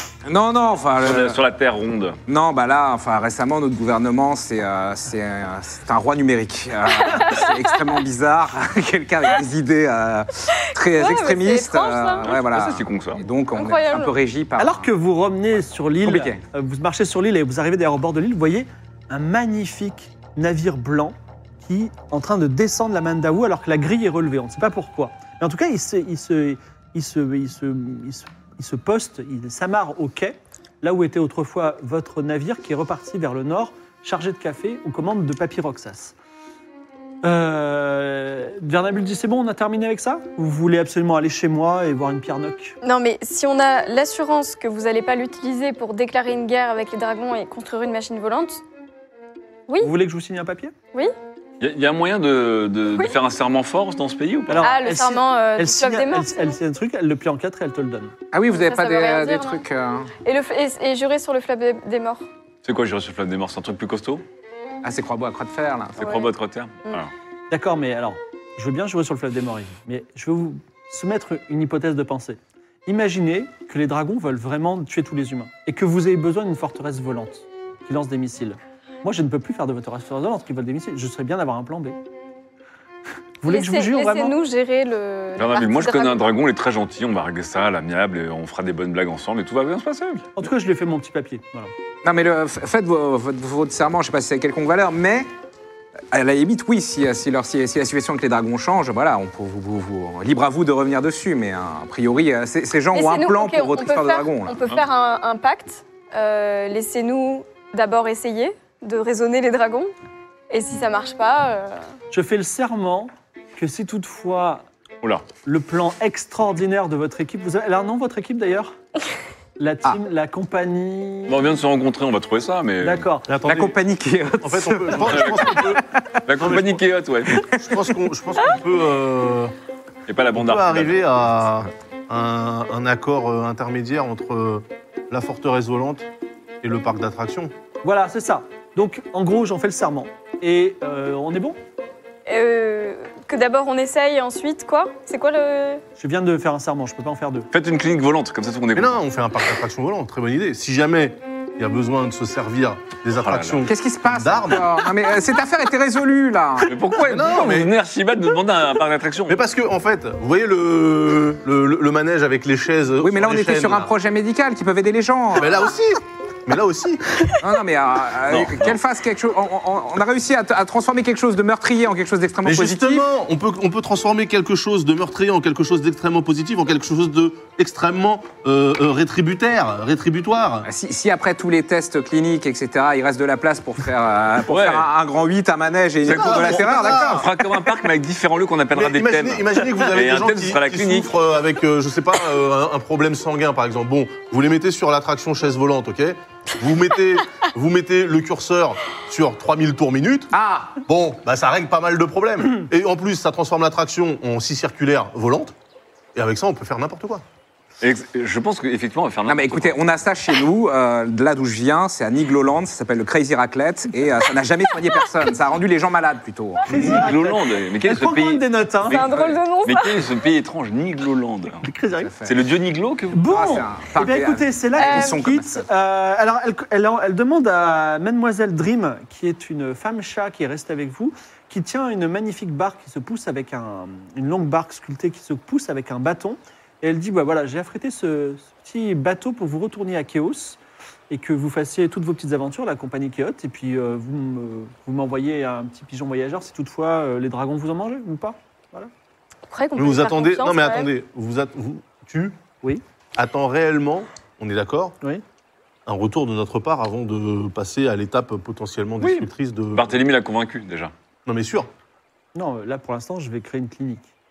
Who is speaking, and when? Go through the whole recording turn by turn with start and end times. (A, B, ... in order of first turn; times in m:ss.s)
0:00.2-0:01.4 A
0:01.0-0:02.2 B
0:02.3-0:14.9 A
0:07.1-0:07.5 C
0:10.9-0:12.3 C
0:12.2-0:13.2 B
0:13.6-0:14.1 C
0:14.6-0:36.2 D
0:16.0-0:16.4 A
0:37.2-0:42.8 D
0:42.8-0:48.6 C
0:49.8-0:50.7 D
0:51.6-0:54.7 B
0:54.5-0:58.1 D
0:54.6-0:56.5 C
0:58.3-1:00.1 A
0:58.5-0:59.6 C
1:00.2-1:02.3 C
1:02.6-1:04.2 B
1:04.8-1:06.1 A
1:06.0-1:07.1 B
1:06.0-1:06.3 C
1:07.5-1:22.0 D
1:23.4-1:24.4 D
1:23.5-1:26.3 C
1:25.4-1:30.3 B
1:30.4-1:31.7 D
1:32.0-1:35.3 A
1:36.1-1:44.6 A
1:42.9-1:49.9 C
1:50.5-1:51.9 C
1:52.1-1:54.7 D
1:55.4-1:58.8 D
1:59.6-2:01.4 D
2:01.3-2:03.1 B
2:02.8-2:03.3 D
2:03.3-2:03.8 E
2:03.4-2:06.2 A
2:04.4-2:05.8 E
2:05.0-2:07.5 B
2:06.4-2:06.8 E
2:07.3-2:07.9 A
2:07.6-2:09.5 E
2:10.1-2:11.3 B
2:10.3-2:16.1 E
2:16.6-2:17.5 E
2:17.8-2:21.6 D
2:22.3-2:25.8 C
2:26.0-2:27.5 D
2:27.5-2:29.0 B
2:28.8-2:34.8 E
2:33.2-2:33.7 B
2:33.7-2:36.8 A
2:36.6-2:39.4 B
2:37.0-2:37.7 E
2:39.3-2:43.9 E
2:43.0-2:45.5 A
2:45.4-2:47.0 E
2:47.4-2:53.1 A
2:48.3-2:48.8 B
2:52.4-3:00.7 E
3:00.6-3:07.3 A
3:04.5-3:04.9 B
3:06.0-3:07.3 E
3:06.1-3:11.1 B
3:08.7-3:20.3 E
3:20.3-3:20.8 A
3:20.8-3:25.5 E
3:26.2-3:27.2 E
3:27.8-3:29.8 B
3:29.3-3:36.8 A
3:36.7-3:39.1 D
3:36.7-3:41.7 B
3:38.9-3:40.0 C
3:41.6-3:42.1 D
3:42.0-3:42.4 A
3:42.3-3:43.2 B
3:43.1-4:08.9 D
3:43.3-3:45.7 A
3:44.8-3:45.2 C
4:09.5-4:10.9 C
4:09.8-4:12.4 E
4:13.2-4:15.0 E
4:15.9-4:20.0 E
4:19.0-4:19.3 D
4:19.7-4:20.9 B
4:21.3-4:21.7 E
4:22.4-4:24.1 D